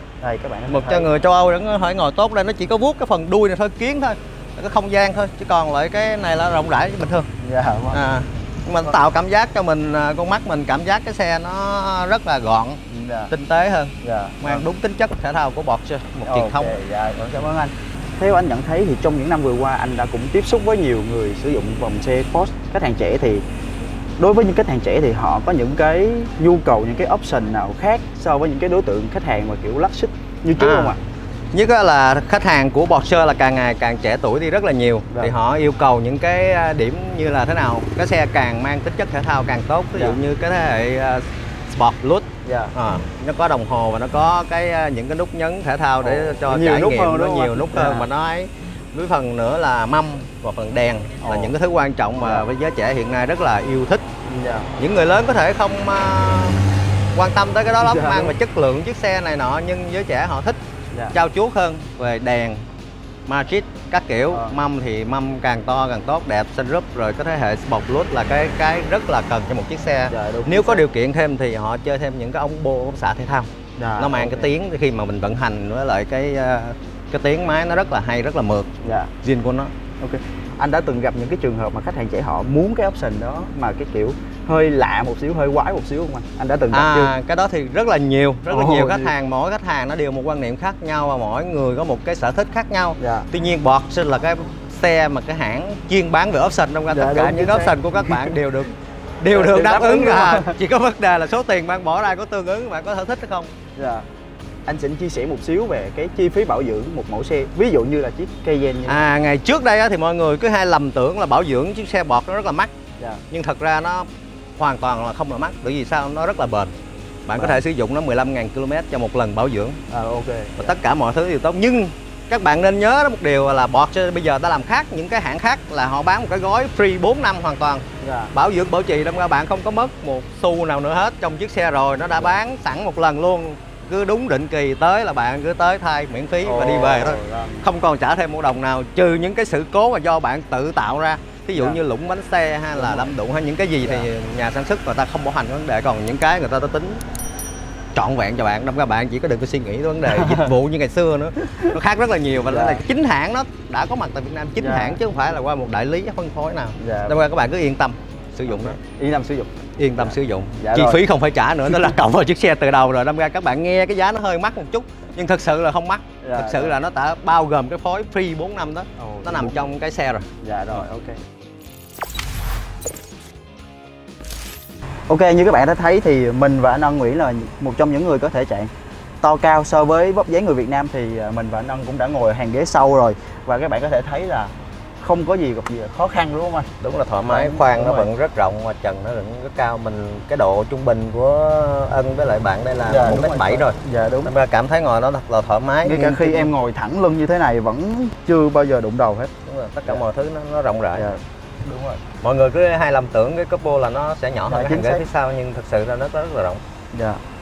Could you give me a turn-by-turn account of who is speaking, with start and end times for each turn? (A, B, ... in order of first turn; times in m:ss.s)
0:00.2-0:01.2 A
0:00.7-0:07.3 B
0:07.4-0:08.0 A
0:07.9-0:16.8 B
0:12.9-0:13.3 A
0:14.0-0:14.7 A
0:16.2-0:23.4 A
0:24.2-0:31.0 A
0:30.6-0:31.0 B
0:31.5-0:54.1 B
0:40.0-0:40.2 A
0:42.4-0:42.7 A
0:46.0-0:48.1 A
0:51.2-0:51.6 A
0:52.2-0:52.5 A
0:54.3-0:54.7 A
0:54.8-0:56.6 B
0:57.2-1:00.6 B
0:57.8-0:58.4 A
1:01.1-1:02.6 B
1:03.3-1:19.7 B
1:04.3-1:04.6 A
1:10.1-1:10.8 A
1:13.8-1:14.5 A
1:18.8-1:19.1 A
1:20.0-1:27.1 A
1:26.7-1:43.5 B
1:28.5-1:29.1 A
1:33.0-1:33.3 A
1:36.9-1:38.4 A
1:39.3-1:40.6 A
1:43.8-1:44.1 A
1:44.7-1:49.1 A
1:48.9-1:52.7 B
1:53.3-1:59.8 B
1:59.9-2:00.8 A
2:00.6-2:27.0 B
2:08.0-2:08.3 A
2:16.4-2:17.7 A
2:21.5-2:21.8 A
2:22.8-2:23.2 A
2:23.8-2:24.1 A
2:27.9-2:38.8 B
2:30.1-2:30.5 A
2:32.4-2:32.8 A
2:34.6-2:35.0 A
2:36.8-2:37.2 A
2:38.5-2:41.0 A
2:39.8-2:50.8 B
2:41.7-2:42.0 A
2:46.2-2:46.8 A
2:49.0-2:49.7 A
2:50.4-2:51.2 A
2:55.1-2:58.7 A
2:59.2-3:06.7 A
3:06.8-3:16.5 B
3:07.3-3:08.1 A
3:12.9-3:14.3 A
3:15.8-3:19.3 A
3:19.5-3:21.2 B
3:21.0-3:22.0 A
3:22.2-3:26.6 B
3:24.5-3:25.0 A
3:26.9-3:27.2 A